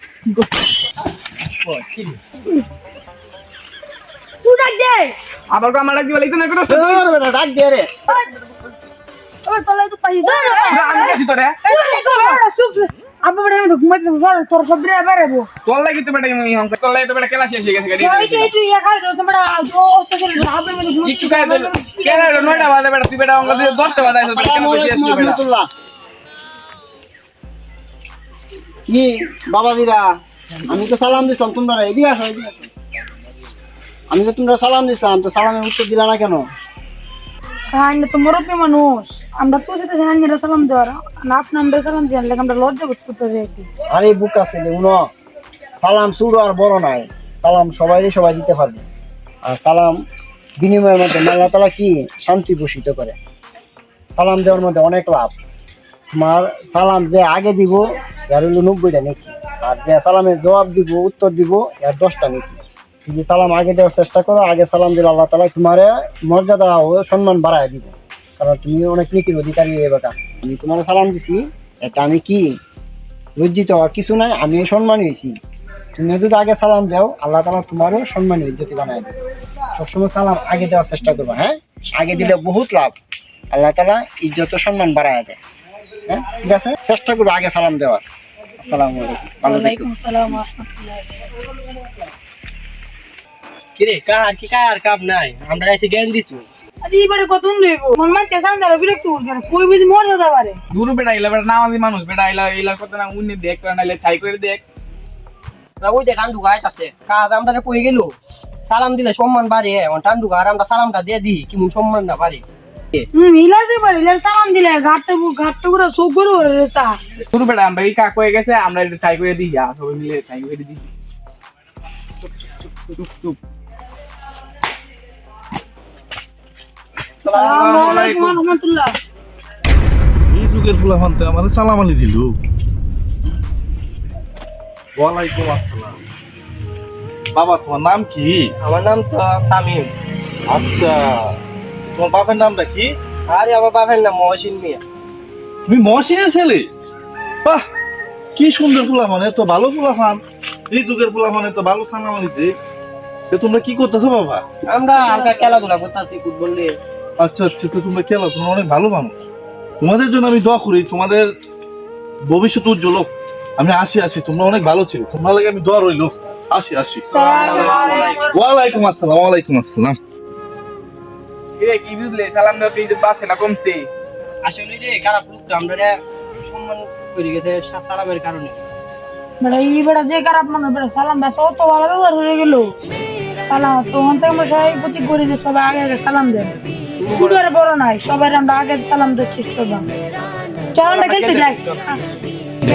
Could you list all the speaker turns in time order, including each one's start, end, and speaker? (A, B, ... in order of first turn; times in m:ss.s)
0:01.7-0:02.2 A
0:04.4-0:05.1 B
0:05.5-0:07.0 C
0:06.7-0:07.9 D
0:09.4-0:15.5 B
0:10.7-0:11.6 C
0:15.6-0:18.5 C
0:18.0-0:22.7 B
0:21.0-0:25.4 C
0:23.4-0:25.7 D
0:28.9-0:30.0 D
0:30.6-0:32.7 D
0:34.1-0:36.5 D
0:37.7-0:43.7 B
0:43.9-0:45.1 D
0:45.8-0:48.8 D
0:49.5-0:50.0 D
0:50.6-0:53.2 D
0:54.2-0:55.4 D
0:56.2-1:12.6 D
1:13.4-1:15.4 D
1:16.0-1:19.1 D
1:19.8-1:23.0 D
1:23.5-1:25.4 D
1:26.1-1:28.0 D
1:28.6-1:29.9 D
1:29.4-1:31.2 B
1:33.8-1:36.4 A
1:36.8-1:40.6 B
1:40.7-1:44.6 C
1:45.8-1:48.1 A
1:48.7-1:53.0 A
1:53.1-1:57.0 B
1:57.3-2:00.9 C
2:02.9-2:03.4 C
2:07.3-2:08.4 C
2:07.3-2:08.9 B
2:10.3-2:12.4 E
2:15.0-2:16.0 E
2:17.3-2:18.5 E
2:18.6-2:19.9 A
2:20.5-2:21.3 E
2:21.9-2:22.9 E
2:23.3-2:24.8 A
2:25.7-2:26.7 E
2:28.4-2:32.5 E
2:33.3-2:34.4 E
2:34.7-2:36.7 A
2:35.0-2:35.5 B
2:37.2-2:39.2 E
2:39.8-2:41.3 E
2:42.2-2:47.7 E
2:47.1-2:48.2 A
2:47.1-2:48.4 B
2:47.2-2:48.1 C
2:48.3-2:50.0 E
2:51.6-2:53.9 C
2:54.4-2:58.6 A
2:59.4-3:02.7 B
3:03.5-3:09.8 B
3:07.0-3:07.3 A
3:10.7-3:12.0 B
3:10.8-3:12.1 C